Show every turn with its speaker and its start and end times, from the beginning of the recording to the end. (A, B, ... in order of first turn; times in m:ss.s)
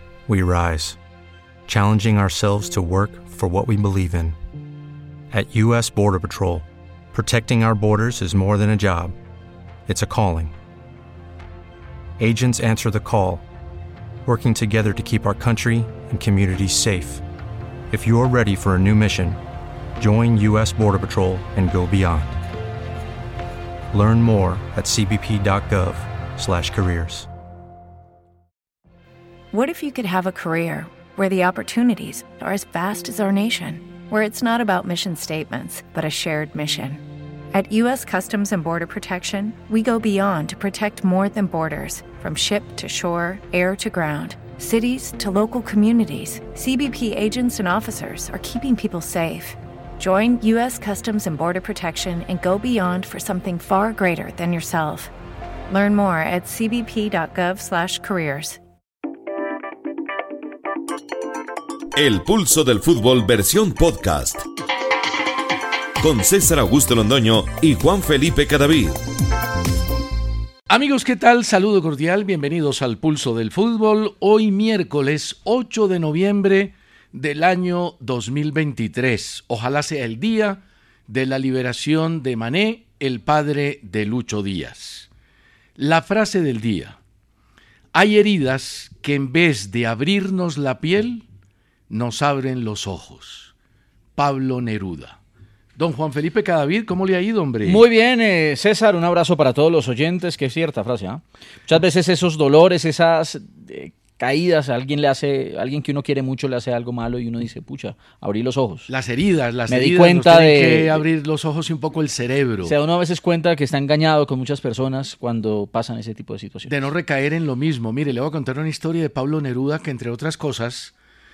0:00.3-0:01.0 A
0:01.7-0:04.3 A
0:05.3-0:09.1 A
0:09.8-0:10.5 A
0:12.2-0:13.4 A
0:14.2-0:17.2 A
0:17.9-0:19.4 A
0:20.0-0:22.3 A
0:23.9-0:27.3 A
0:29.5-0:55.1 B
0:55.7-0:58.6 B
1:01.9-1:04.4 C
1:06.0-1:09.0 C
1:10.7-1:25.1 D
1:25.8-1:27.0 D
1:27.9-1:31.2 D
1:31.9-1:33.5 D
1:34.2-1:35.2 D
1:35.8-1:37.8 D
1:37.6-1:48.9 E
1:48.9-1:52.7 D
1:49.7-1:51.0 E
1:52.6-1:56.8 E
1:56.7-2:00.9 D